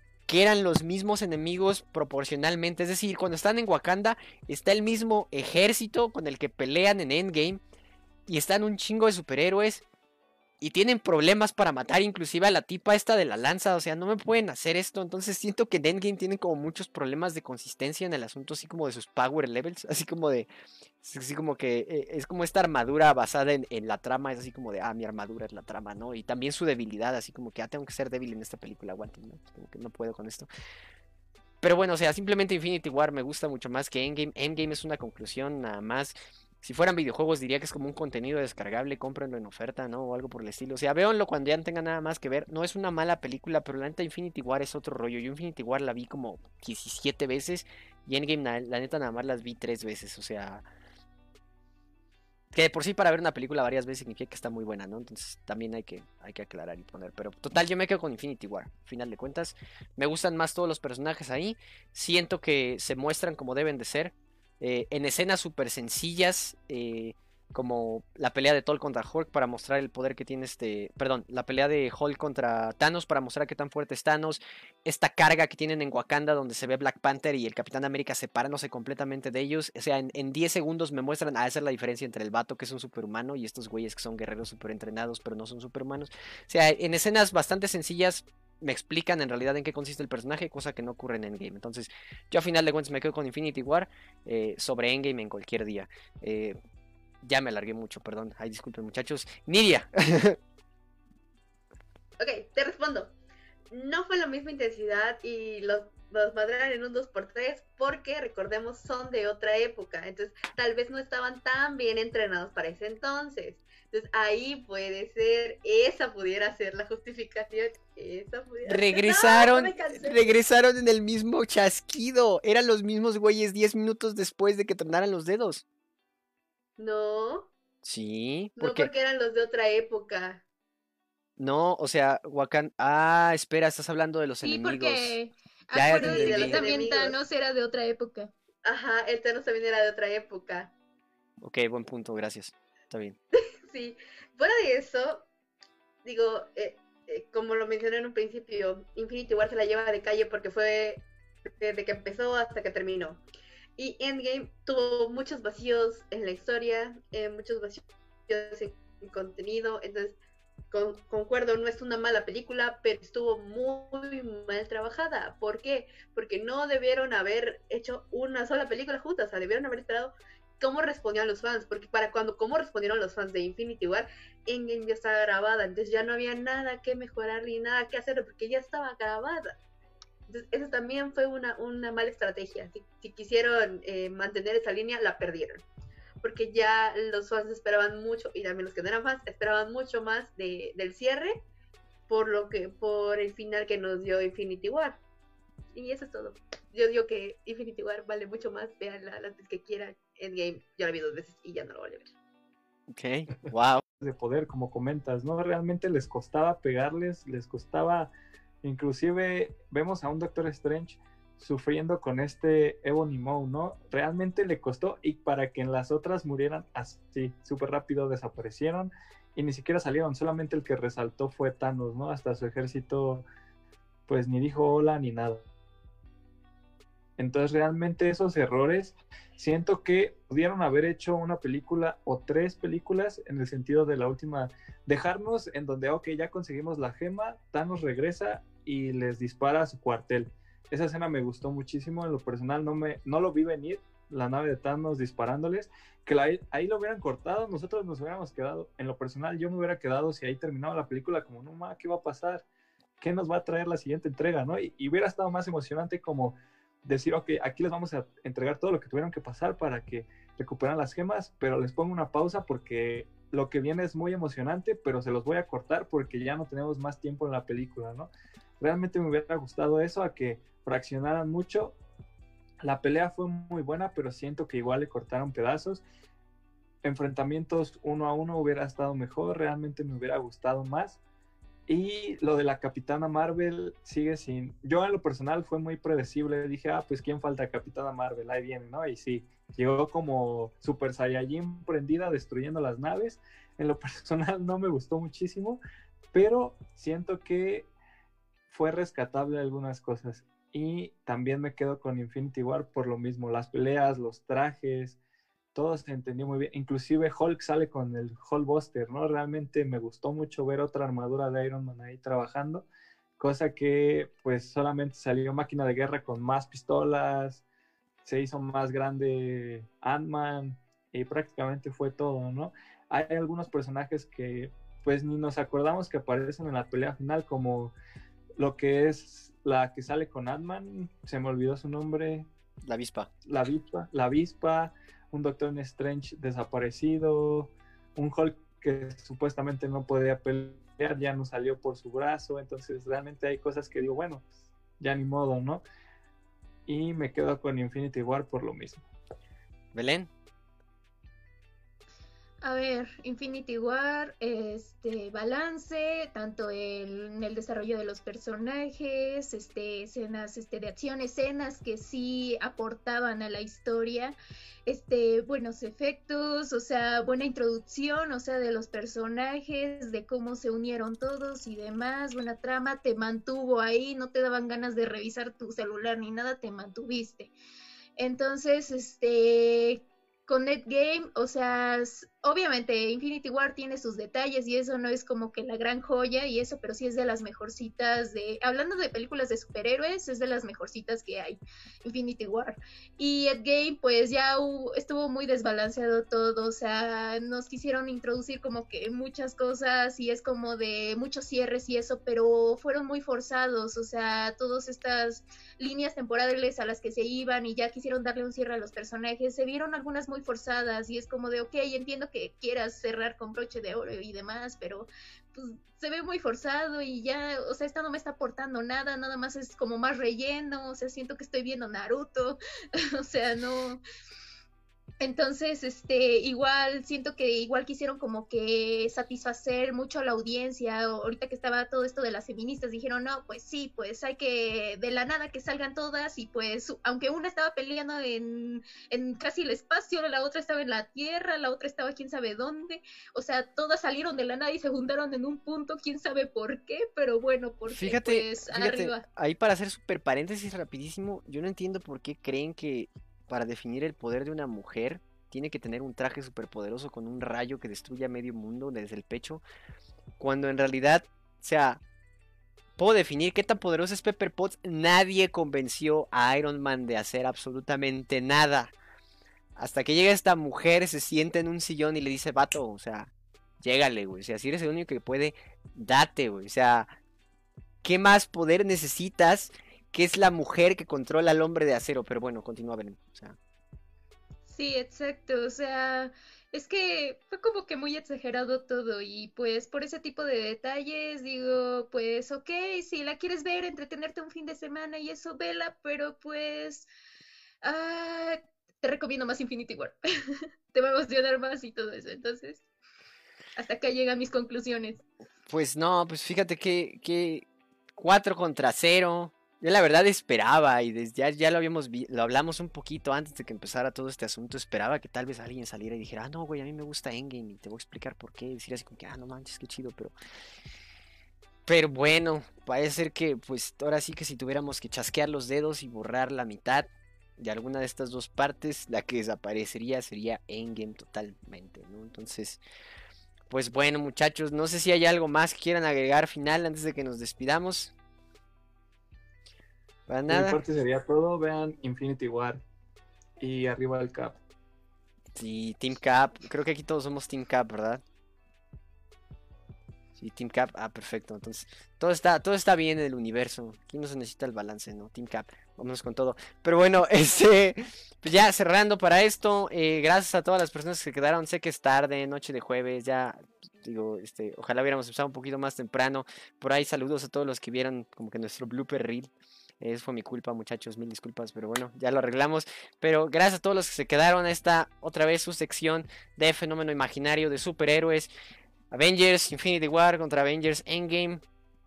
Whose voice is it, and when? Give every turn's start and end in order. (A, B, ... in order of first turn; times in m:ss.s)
0:00.3-0:07.6 A
0:08.3-0:09.8 A
0:10.6-0:20.5 A
0:21.0-0:30.5 A
0:31.6-0:50.6 A
0:52.5-1:36.6 A
1:37.2-1:40.4 A
1:42.2-1:43.1 B
1:43.7-2:00.3 B
1:58.6-2:05.6 A
2:06.8-2:07.5 B
2:07.8-2:08.9 A
2:08.6-2:10.4 B
2:11.4-2:15.2 A
2:14.4-2:18.3 C
2:15.7-2:16.7 A
2:15.9-2:17.2 B
2:18.6-2:20.7 B
2:21.4-2:23.2 A
2:23.6-2:25.3 B
2:26.0-2:33.2 B
2:33.8-2:40.2 B
2:40.7-2:59.6 B
3:00.3-3:05.6 B
3:06.2-3:11.4 B
3:12.1-3:15.0 B
3:15.7-3:22.1 B
3:22.9-3:23.8 A
3:24.0-3:43.2 D
3:44.1-3:45.4 D
3:47.2-4:12.4 D
4:13.0-4:31.8 D
4:32.6-4:35.8 D
4:36.8-4:41.0 D
4:41.7-4:55.6 D
4:56.1-4:57.7 D
4:58.5-5:05.0 D
5:05.5-5:12.6 D
5:13.2-5:17.4 D
5:18.0-5:27.7 D
5:28.4-5:32.3 D
5:32.6-5:33.1 A
5:33.2-5:45.6 D
5:46.7-5:48.8 D
5:49.7-5:50.1 A
5:52.4-6:04.2 C
6:04.7-6:17.3 C
6:18.0-7:03.8 C
7:05.0-7:29.0 C
7:27.7-7:39.4 A
7:40.2-7:41.8 A
7:42.8-7:48.7 A
7:49.6-7:56.9 A
7:57.8-8:03.4 A
8:04.4-8:16.9 C
8:17.6-8:22.6 C
8:23.6-8:25.0 C
8:25.5-8:27.4 A
8:28.0-8:40.1 A
8:41.6-8:52.6 A
8:53.5-8:57.9 A
9:00.1-9:00.6 A
9:00.3-9:02.6 D
9:03.4-9:04.4 D
9:05.3-9:08.0 A
9:10.2-9:29.3 A
9:29.8-9:38.3 A
9:38.9-9:41.4 A